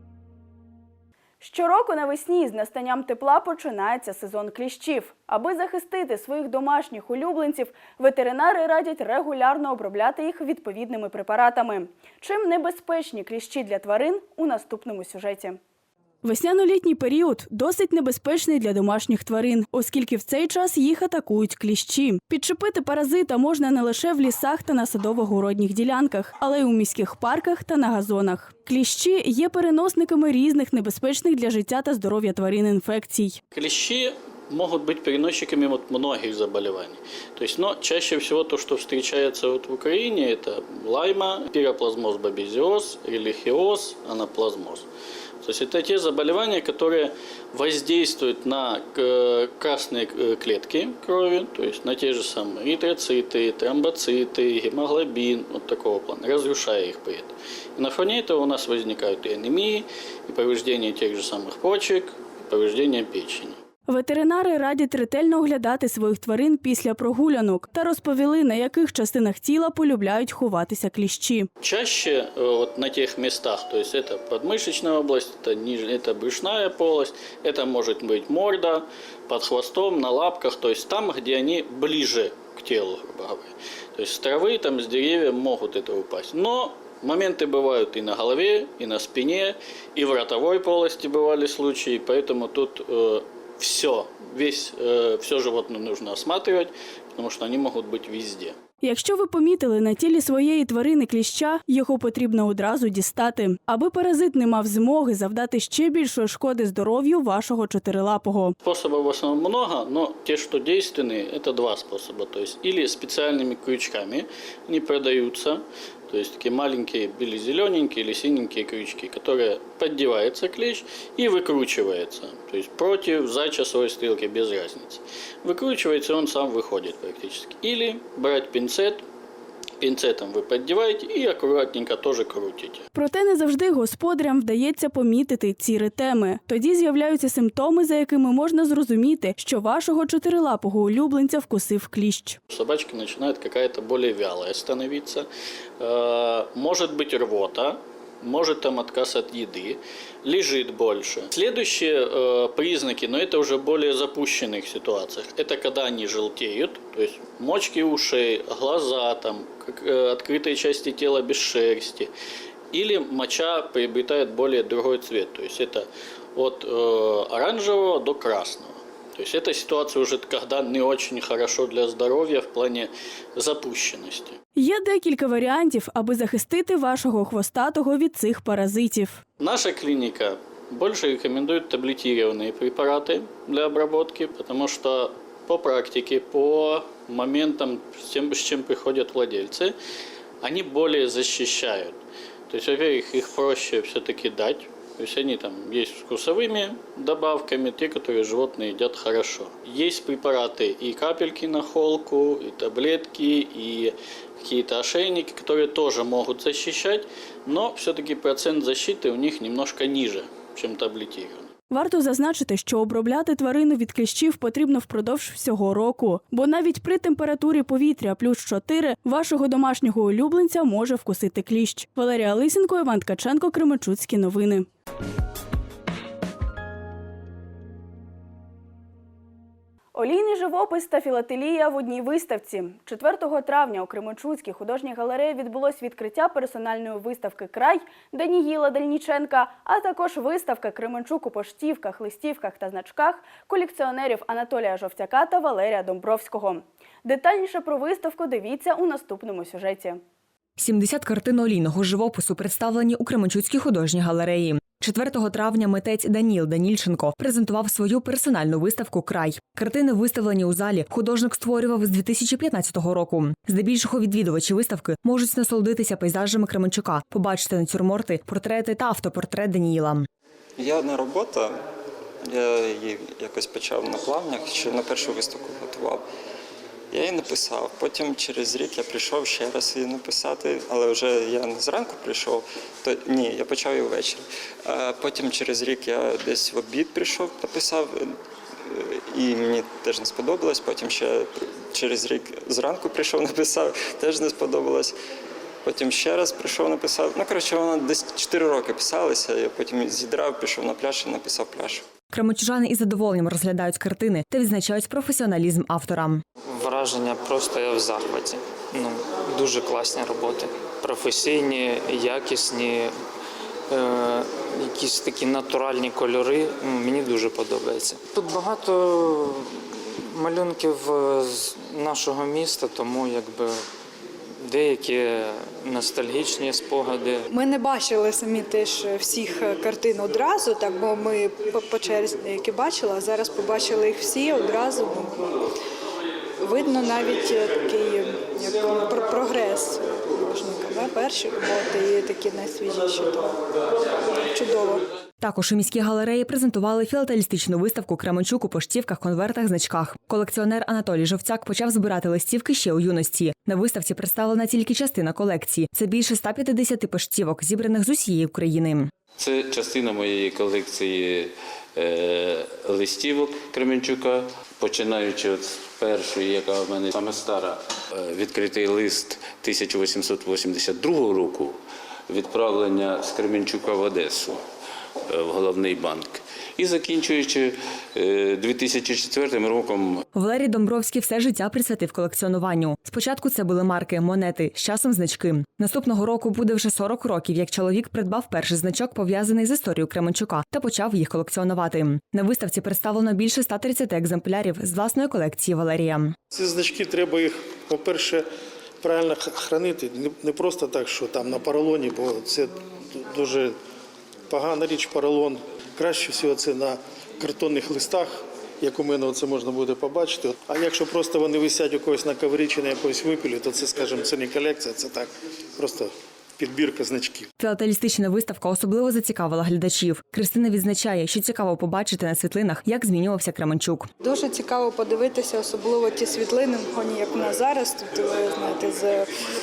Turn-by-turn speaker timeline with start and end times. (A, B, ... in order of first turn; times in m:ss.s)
0:01.4-0:15.6 A
0:16.2-0:33.4 A
0:33.5-0:44.8 B
0:45.4-1:03.6 B
1:03.9-1:11.5 A
1:11.6-1:38.6 B
1:38.8-1:48.5 A
1:48.6-2:09.0 B
2:09.8-2:12.8 B
2:12.9-2:22.4 A
2:22.5-2:25.3 B
2:25.8-2:42.1 B
2:42.7-2:54.4 B
2:54.6-2:59.2 A
2:59.4-3:09.7 B
3:10.4-3:12.0 B
3:12.5-3:31.5 B
3:31.7-3:44.7 A
3:49.9-4:10.0 A
4:10.6-4:30.1 C
4:30.6-4:31.6 D
4:32.2-4:36.0 D
4:36.9-4:48.1 D
4:48.6-4:54.9 D
4:55.6-5:01.8 D
5:02.1-5:06.2 C
5:06.5-5:12.9 E
5:13.7-5:23.6 E
5:24.4-5:27.2 E
5:27.3-5:35.3 F
5:36.4-5:43.4 F
5:44.3-5:44.8 F
5:45.2-5:58.9 C
5:59.2-6:11.6 G
6:12.1-6:14.4 G
6:15.1-6:20.0 G
6:20.1-6:36.1 C
6:36.3-6:38.3 H
6:38.8-6:43.6 H
6:44.3-6:57.3 H
6:57.4-7:03.9 C
7:04.0-7:09.1 F